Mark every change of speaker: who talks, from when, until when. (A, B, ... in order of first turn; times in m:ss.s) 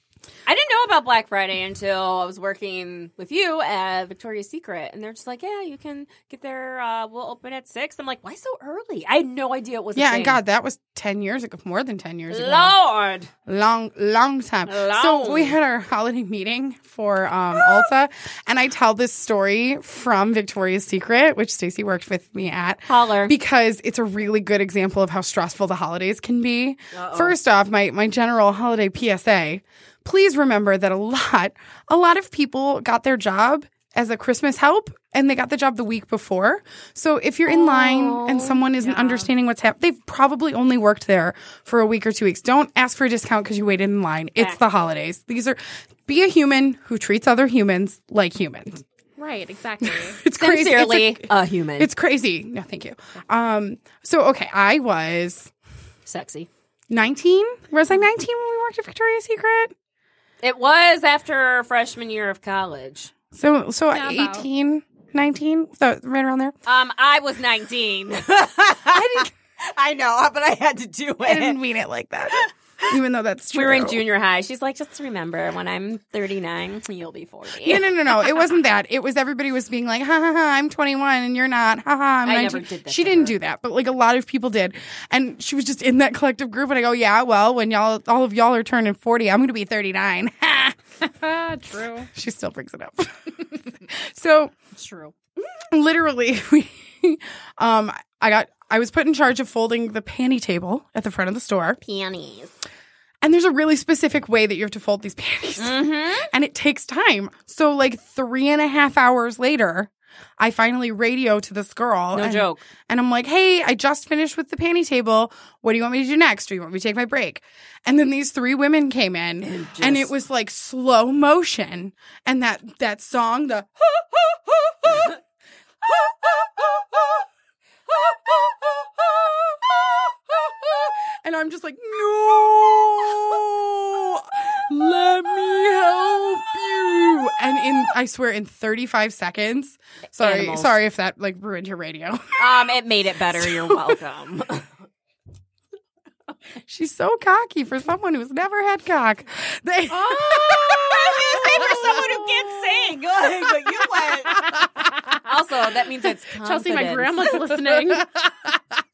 0:00.4-0:10.4 A
0:09.9-0:12.8 B
0:12.3-0:13.3 A
0:13.4-0:48.8 B
0:14.6-0:15.6 A
0:22.9-0:23.4 A
0:26.9-0:27.4 A
0:37.5-0:38.6 A
0:38.8-0:39.3 C
0:49.2-0:50.2 C
0:49.8-0:55.5 B
0:50.3-0:51.9 A
0:56.1-0:56.5 A
0:56.9-0:59.7 B
1:00.4-1:03.1 A
1:03.3-1:06.6 B
1:03.9-1:04.4 C
1:06.7-1:11.6 A
1:08.9-1:09.3 B
1:11.2-1:14.0 B
1:13.5-1:18.1 A
1:17.6-1:30.8 B
1:22.2-1:23.4 A
1:31.0-1:32.1 C
1:32.1-1:34.5 B
1:34.8-1:35.2 A
1:35.7-1:41.8 B
1:41.8-1:42.5 A
1:43.2-2:05.2 B
1:45.6-1:46.3 A
1:52.1-1:52.6 A
1:59.4-2:00.1 A
2:05.8-2:07.2 B
2:07.9-2:22.7 B
2:20.1-2:20.8 A
2:22.4-2:24.7 A
2:23.3-2:24.0 B
2:26.7-2:32.9 B
2:29.9-2:34.5 A
2:34.4-2:34.8 B
2:35.2-2:37.4 A
2:36.4-2:38.1 C
2:38.0-2:38.6 B